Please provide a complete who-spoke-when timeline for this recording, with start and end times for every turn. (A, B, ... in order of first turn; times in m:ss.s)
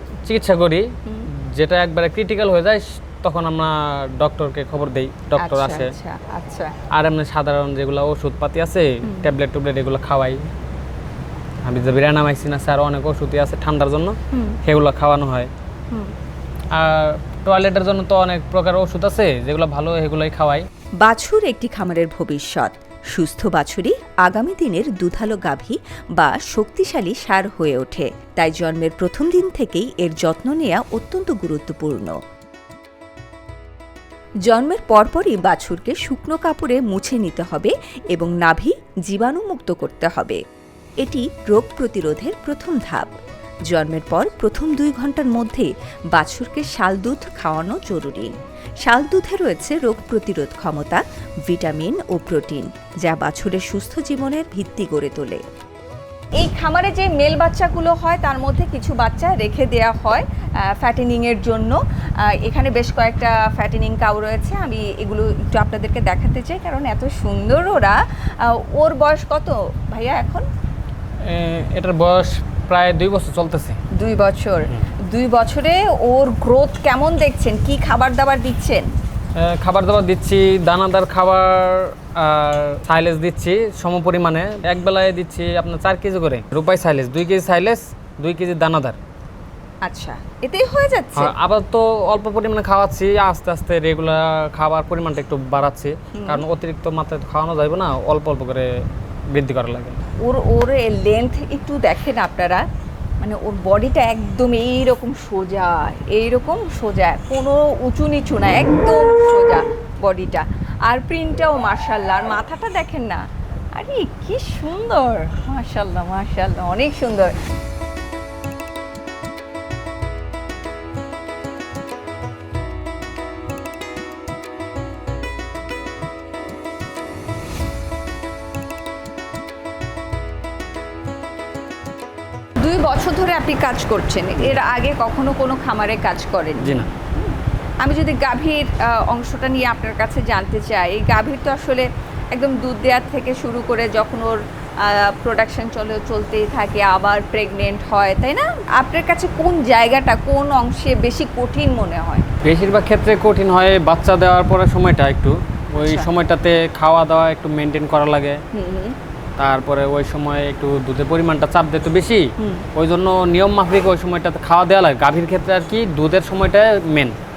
0:00.2-0:05.9 A
0:05.4-0:06.8 B
0:06.9-0:10.5 A
0:09.0-0:09.3 B
0:11.7-0:15.5 A
0:14.3-0:14.6 B
0:16.8-0:20.7 A
0:21.0-0:32.2 C
0:34.5-0:40.4 C
0:41.0-0:43.1 C
0:43.7-0:55.4 C
0:56.4-1:10.5 B
1:11.2-1:13.8 A
1:13.9-1:18.9 B
1:19.4-1:29.0 A
1:29.8-1:31.3 B
1:31.2-1:40.0 A
1:36.2-1:36.4 B
1:40.2-1:42.6 B
1:43.2-1:57.4 B
2:12.6-2:32.3 B
2:16.6-2:16.9 A
2:32.4-2:38.4 A
2:35.8-2:36.1 B
2:38.5-2:39.0 B
2:39.4-2:47.2 A
2:42.4-2:42.7 B